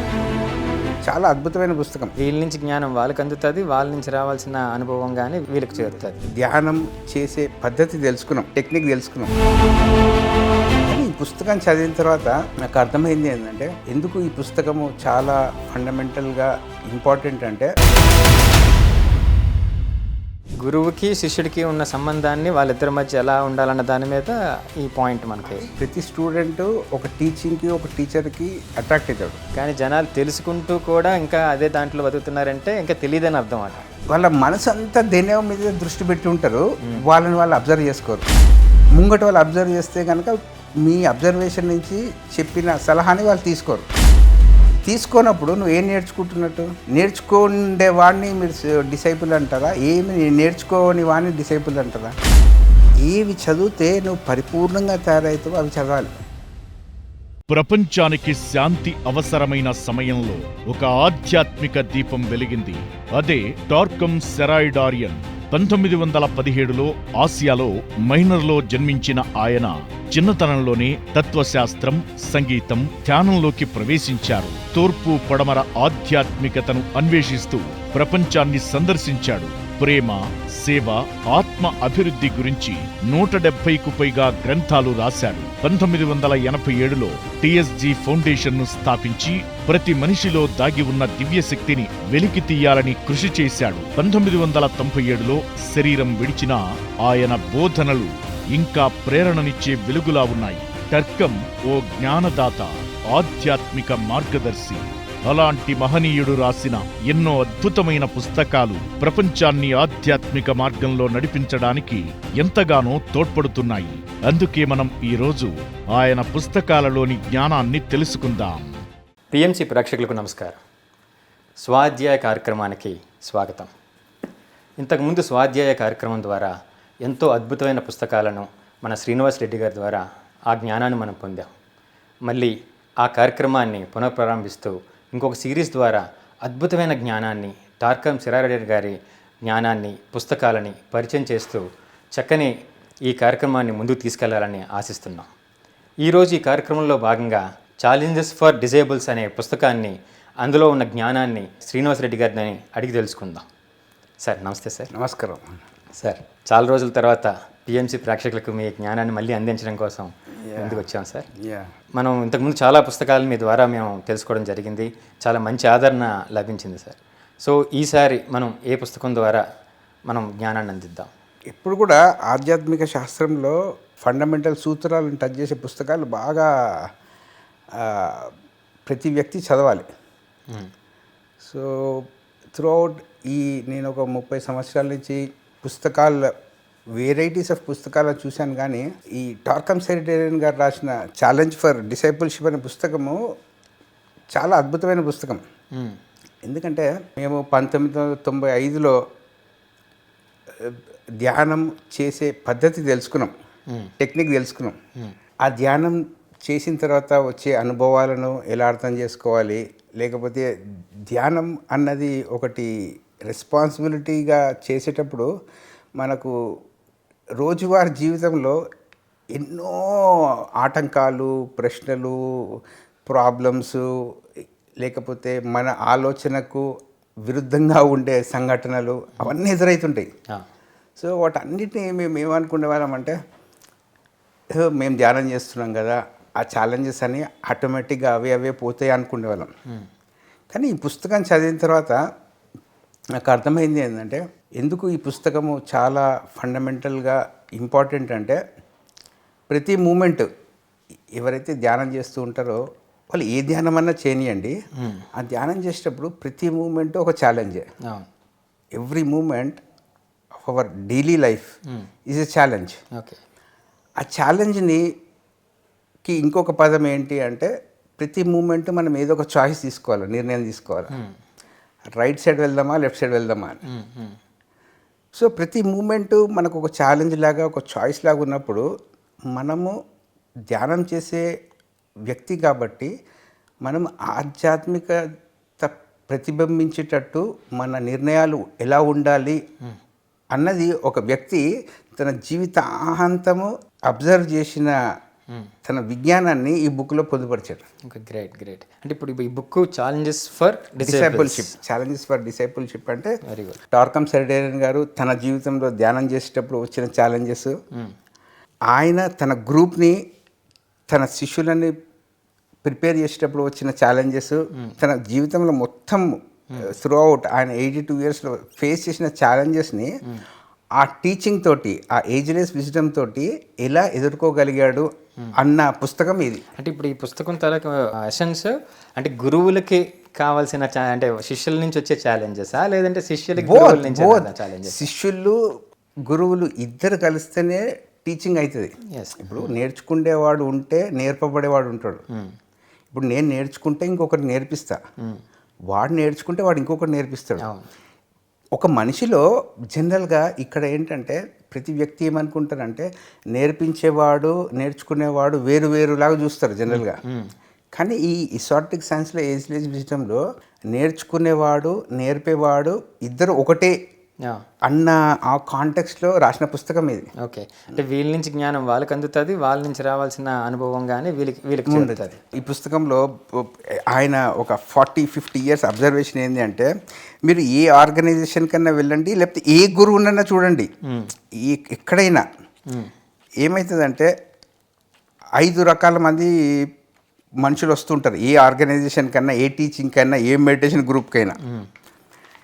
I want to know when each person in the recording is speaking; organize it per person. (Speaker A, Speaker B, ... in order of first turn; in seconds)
Speaker A: 1.0-2.1, 5.9-9.3, 10.8-17.7, 25.4-29.4, 34.1-38.3, 39.0-43.9, 44.9-52.2, 53.0-56.1, 154.9-155.6, 160.4-160.8, 161.4-161.7, 171.5-176.9, 177.7-178.3, 178.9-179.9, 181.4-186.3, 186.9-193.2, 194.3-195.4, 196.4-199.0, 200.6-203.3, 204.0-204.8, 205.4-210.5, 211.1-212.7, 213.3-215.3, 216.0-216.3, 217.4-218.6, 219.3-223.9, 224.8-226.7, 227.2-230.1, 231.0-233.2, 234.5-239.5, 240.5-242.0, 243.2-248.4, 249.5-250.3, 251.2-254.6, 255.1-257.7, 258.8-259.6, 260.4-261.5, 262.1-262.8, 264.0-264.9, 266.0-270.9, 272.0-273.6, 275.1-278.6, 279.3-279.7, 280.5-281.3, 282.1-282.9, 283.6-285.0, 285.6-289.4, 290.3-294.8, 295.6-297.6, 300.8-303.2, 303.7-307.6, 308.7-310.1, 310.9-311.7, 312.6-320.0, 320.8-326.4, 333.4-335.4, 336.1-342.0, 342.9-344.8, 345.7-347.5, 348.6-357.0, 357.7-363.8, 364.6-367.1, 371.7-376.7, 377.2-380.7, 381.3-382.3, 383.4-384.1, 385.4-386.7, 387.4-391.4
Speaker B: 2.2-6.2, 20.6-25.7, 29.5-33.8, 119.3-120.6, 121.6-123.7, 124.8-131.5, 132.2-142.5, 143.1-145.3, 146.0-153.5, 154.2-154.9, 156.0-161.3, 161.9-169.4, 170.1-171.1, 254.8-255.1, 262.9-263.2, 273.6-274.2, 297.9-301.6, 303.2-303.6, 326.6-334.9, 338.9-339.5, 347.4-347.7, 356.7-357.3, 367.2-372.3, 380.9-381.1
Speaker C: 57.5-118.8